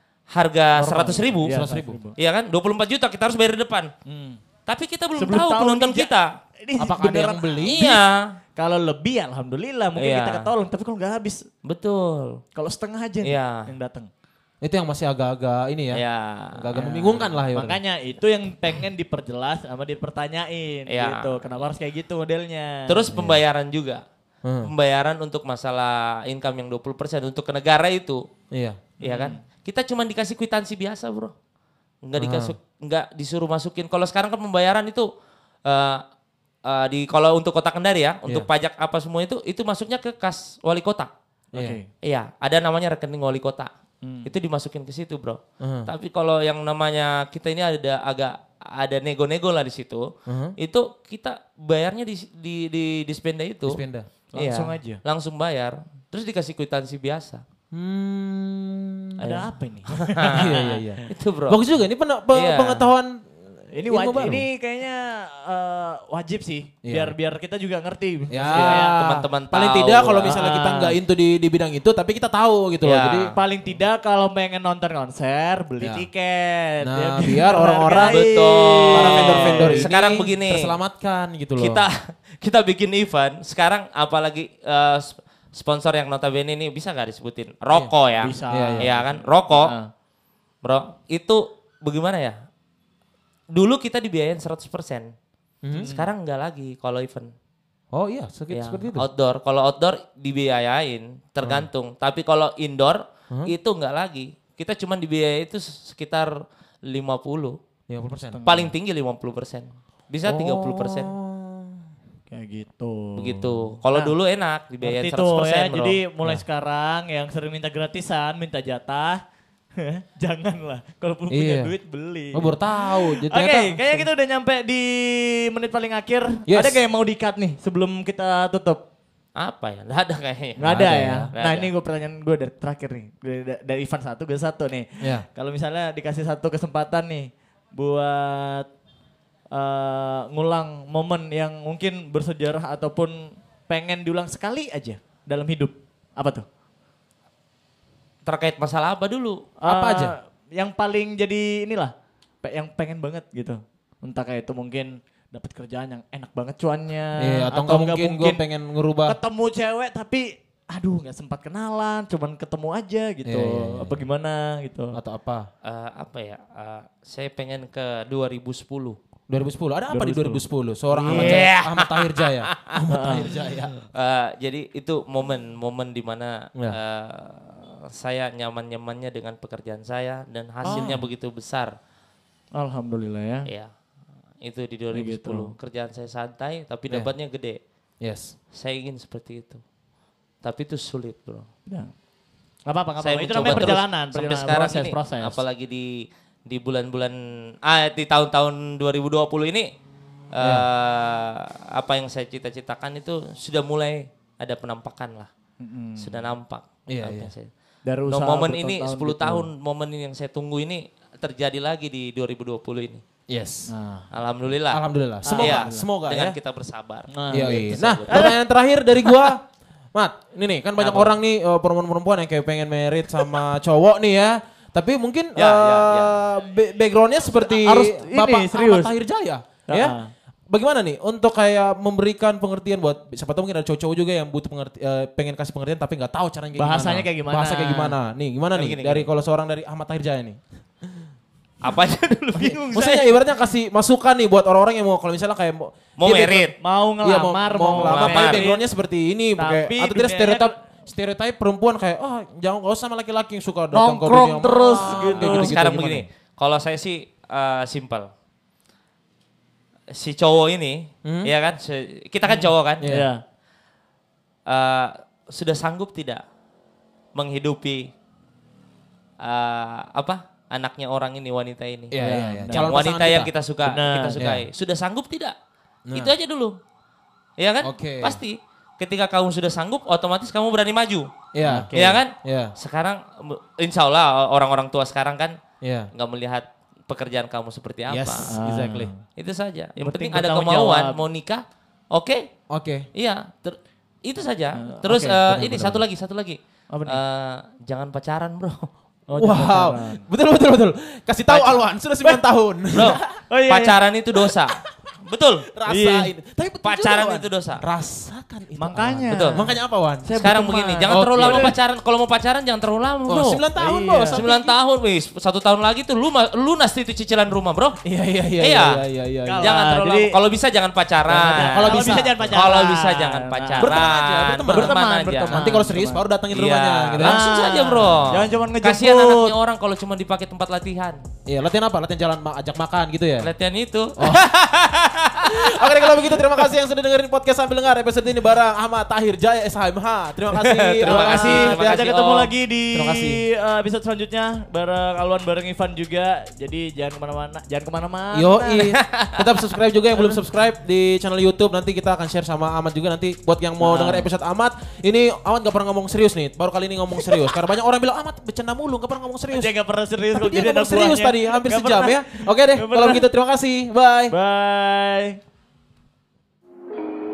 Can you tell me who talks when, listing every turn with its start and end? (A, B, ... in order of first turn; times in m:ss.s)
0:00.3-0:01.6 A
0:00.8-0:02.1 B
0:01.4-0:02.0 C
0:02.2-0:03.9 A
0:04.1-0:04.4 B
0:04.7-0:06.3 A
0:05.2-0:07.8 B
0:06.8-0:08.0 C
0:07.6-0:08.2 A
0:08.6-0:11.5 B
0:10.0-0:10.5 A
0:11.6-0:12.4 A
0:12.6-0:14.1 B
0:13.2-0:13.6 A
0:14.6-0:16.0 C
0:15.9-0:16.8 A
0:16.5-0:17.8 C
0:16.8-0:23.0 B
0:20.9-0:21.4 A
0:22.9-0:24.0 A
0:23.1-0:23.4 C
0:24.4-0:24.7 C
0:24.6-0:28.2 A
0:28.5-0:28.8 C
0:29.0-0:29.4 B
0:29.0-0:31.3 A
0:32.0-0:35.1 A
0:32.2-0:32.6 C
0:35.7-0:36.0 A
0:36.6-0:41.1 A
0:41.5-0:41.9 B
0:42.0-0:43.7 A
0:44.0-0:44.3 B
0:44.2-0:53.8 A
0:45.6-0:45.9 C
0:50.3-0:50.6 C
0:53.7-0:54.1 C
0:54.3-0:55.0 B
0:54.4-0:57.4 A
0:57.7-0:59.2 C
0:59.2-1:01.0 B
0:59.2-1:00.5 A
1:00.2-1:03.3 C
1:01.1-1:01.6 A
1:02.3-1:02.9 A
1:03.7-1:09.0 B
1:03.8-1:04.4 C
1:06.8-1:07.1 C
1:08.3-1:13.3 C
1:08.5-1:10.4 A
1:10.2-1:11.0 B
1:12.8-1:13.4 A
1:13.3-1:19.9 B
1:15.8-1:16.1 C
1:16.8-1:18.3 C
1:18.1-1:20.7 A
1:18.9-1:21.8 C
1:21.6-1:29.7 A
1:28.2-1:29.9 B
1:28.5-1:28.9 C
1:30.6-1:32.4 A
1:33.5-1:35.1 A
1:35.6-1:35.9 C
1:35.7-1:36.1 B
1:35.8-1:37.3 A
1:37.9-1:39.1 C
1:38.5-1:46.3 A
1:41.4-1:41.7 C
1:46.9-1:47.6 A
1:47.9-1:48.4 C
1:48.3-1:48.7 B
1:48.4-1:51.1 A
1:50.3-1:51.8 C
1:52.3-1:54.2 B
1:53.2-1:56.0 A
1:54.8-1:59.2 B
1:59.8-2:08.8 B
2:01.3-2:01.7 C
2:02.3-2:04.1 C
2:06.5-2:06.8 C
2:09.4-2:10.8 A
2:10.6-2:18.7 B
2:10.6-2:11.3 C
2:11.3-2:11.7 A
2:19.5-2:23.2 B
2:23.7-2:26.4 B
2:28.3-2:29.5 A
2:29.6-2:38.4 B
2:29.7-2:30.1 C
2:37.2-2:39.2 C
2:39.0-2:45.0 B
2:43.2-2:44.0 C
2:44.9-2:45.5 C
2:45.6-2:49.0 A
2:49.3-2:53.7 C
2:49.9-2:50.4 B
2:50.9-2:51.5 B
2:51.0-2:52.8 A
2:52.9-2:53.3 B
2:53.8-3:01.7 A
3:00.6-3:01.0 C
3:00.6-3:01.0 B
3:02.6-3:03.5 B
3:04.4-3:07.6 A
3:04.9-3:05.5 B
3:08.0-3:08.4 C
3:08.5-3:09.6 A
3:10.4-3:11.5 A
3:12.7-3:15.4 B
3:13.0-3:19.7 A
3:20.3-3:25.3 A
3:20.4-3:20.7 C
3:25.6-3:26.2 B
3:26.0-3:27.5 A
3:26.9-3:27.3 C
3:27.9-3:29.5 B
3:28.1-3:33.0 A
3:33.3-3:33.7 C
3:33.7-3:34.1 B
3:34.1-3:38.4 A
3:34.7-3:36.4 C
3:35.2-3:35.9 B
3:37.1-3:38.4 B
3:37.3-3:50.0 C
3:45.4-3:46.2 A
3:47.3-3:48.9 B
3:49.7-3:50.1 B
3:50.5-4:00.9 C
3:56.6-3:58.0 B
3:58.5-3:59.1 A
4:01.6-4:02.8 A
4:02.4-4:03.1 B
4:02.7-4:06.5 C
4:06.0-4:06.6 A
4:06.6-4:08.6 B
4:07.0-4:16.1 C
4:07.8-4:08.5 A
4:09.4-4:10.5 B
4:13.7-4:15.6 B
4:15.0-4:18.1 A
4:19.9-4:22.8 A
4:21.0-4:21.3 C
4:22.3-4:23.2 B
4:22.8-4:23.1 C
4:24.5-4:26.2 A
4:27.2-4:27.9 A
4:29.2-4:35.3 A
4:31.9-4:33.3 C
4:32.0-4:32.7 B
4:33.6-4:34.2 B
4:34.2-4:34.5 C
4:35.9-4:36.1 C
4:35.9-4:36.6 A
4:37.4-4:41.1 A
4:37.6-4:38.2 C
4:41.3-4:42.5 C
4:41.4-4:42.0 B
4:41.7-4:45.4 A
4:45.6-4:45.9 C
4:45.9-4:48.3 A
4:47.9-4:48.9 C
4:48.3-4:49.0 B
4:49.2-4:52.3 A
4:49.8-4:51.0 B
4:52.5-4:52.9 C
4:53.0-4:58.7 A
4:54.6-4:55.2 B
4:55.2-4:55.8 C
4:56.7-4:57.0 B
4:59.1-5:00.0 B
4:59.2-5:03.0 C
5:01.3-5:04.4 B
5:02.7-5:05.5 A
5:05.5-5:10.2 C
5:05.7-5:06.1 B
5:06.6-5:07.6 A
5:08.6-5:11.6 B
5:09.1-5:09.4 A
5:10.2-5:13.4 A
5:10.9-5:11.6 C
5:13.1-5:14.6 C
5:13.6-5:14.2 B
5:14.1-5:17.8 A
5:17.8-5:19.6 C
5:18.4-5:18.8 A
5:19.3-5:20.1 B
5:19.4-5:25.5 A
5:21.1-5:22.4 C
5:21.3-5:23.8 B
5:23.6-5:24.8 C
5:24.5-5:26.0 B
5:25.3-5:27.3 C
5:26.3-5:31.0 A
5:27.0-5:29.3 B
5:31.3-5:33.3 C
5:33.2-5:34.2 A
5:34.0-5:41.8 C
5:35.1-5:35.4 A
5:40.3-5:42.3 A
5:40.8-5:48.7 B
5:42.7-5:43.2 C
5:48.1-5:59.5 C
5:48.6-5:49.4 A
5:53.6-5:54.1 B
5:59.3-6:03.1 B
6:00.1-6:04.2 C
6:04.1-6:05.2 B